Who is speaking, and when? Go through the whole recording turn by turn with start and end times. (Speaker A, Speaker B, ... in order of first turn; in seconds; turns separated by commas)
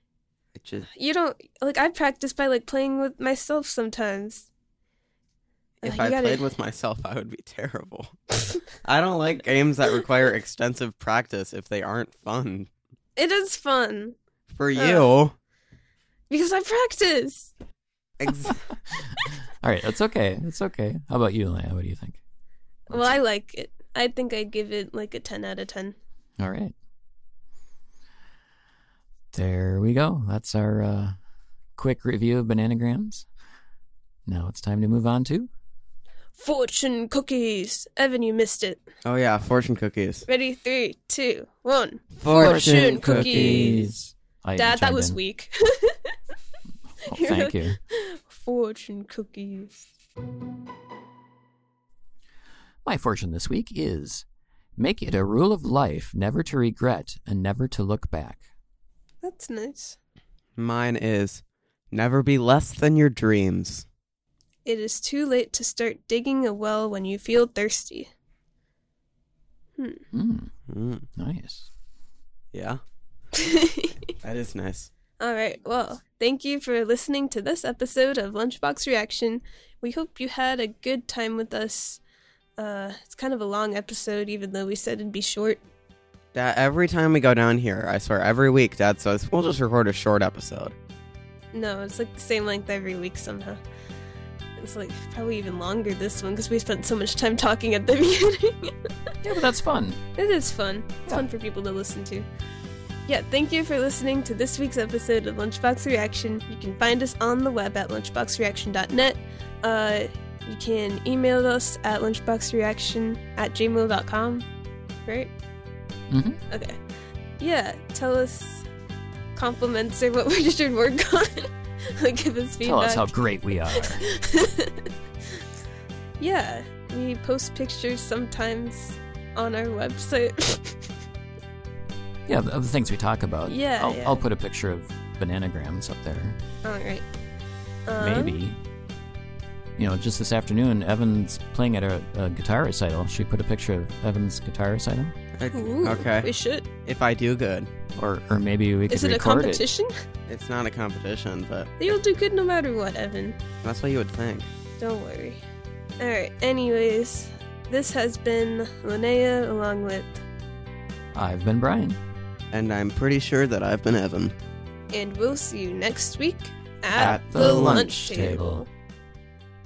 Speaker A: 0.6-0.9, Speaker B: 0.9-4.5, Speaker A: 5.8-8.1, Speaker B: 5.8-6.5, Speaker A: 8.7-12.7, Speaker B: 13.2-14.2, Speaker A: 14.5-15.3, Speaker B: 14.8-15.1, Speaker B: 16.3-17.5, Speaker A: 18.2-18.6, Speaker C: 18.4-22.2, Speaker B: 22.9-26.0, Speaker C: 26.4-26.8, Speaker C: 29.3-31.2, Speaker C: 31.8-33.3, Speaker C: 34.3-35.5, Speaker B: 36.4-38.8, Speaker A: 39.0-40.2, Speaker B: 40.3-43.9, Speaker A: 42.2-43.9, Speaker C: 42.3-45.2, Speaker B: 44.6-46.2, Speaker C: 47.1-47.8, Speaker B: 47.1-49.9, Speaker C: 52.9-54.2, Speaker C: 54.8-58.4, Speaker B: 59.2-60.0, Speaker A: 60.6-63.9, Speaker B: 64.7-68.1, Speaker B: 69.8-70.0, Speaker C: 70.1-70.5, Speaker A: 70.7-71.1, Speaker C: 71.2-71.7, Speaker A: 72.5-72.8, Speaker B: 73.3-74.0, Speaker A: 74.2-74.9, Speaker B: 75.2-82.0, Speaker B: 82.6-85.6, Speaker A: 86.3-90.8, Speaker B: 91.5-93.6, Speaker B: 94.6-98.9, Speaker C: 99.2-100.0, Speaker B: 100.2-102.3, Speaker B: 103.1-114.5, Speaker B: 115.1-115.3, Speaker C: 116.1-116.4, Speaker B: 116.5-116.8, Speaker B: 117.4-118.7, Speaker B: 119.3-123.2, Speaker C: 122.6-124.0, Speaker B: 123.7-124.9, Speaker B: 126.2-130.9, Speaker C: 132.3-136.4, Speaker B: 133.5-134.2, Speaker B: 136.6-137.1, Speaker B: 137.9-138.4, Speaker C: 138.0-138.6, Speaker C: 139.8-145.1, Speaker A: 145.4-146.3, Speaker B: 145.5-146.7, Speaker A: 146.8-147.7, Speaker C: 148.0-149.6, Speaker B: 148.9-149.9, Speaker A: 150.3-151.8, Speaker B: 151.8-153.4, Speaker A: 153.6-154.5, Speaker B: 154.8-155.4, Speaker B: 156.0-160.2, Speaker C: 161.1-162.0, Speaker A: 162.5-164.3, Speaker B: 164.9-168.7, Speaker C: 167.0-168.7, Speaker A: 167.0-167.9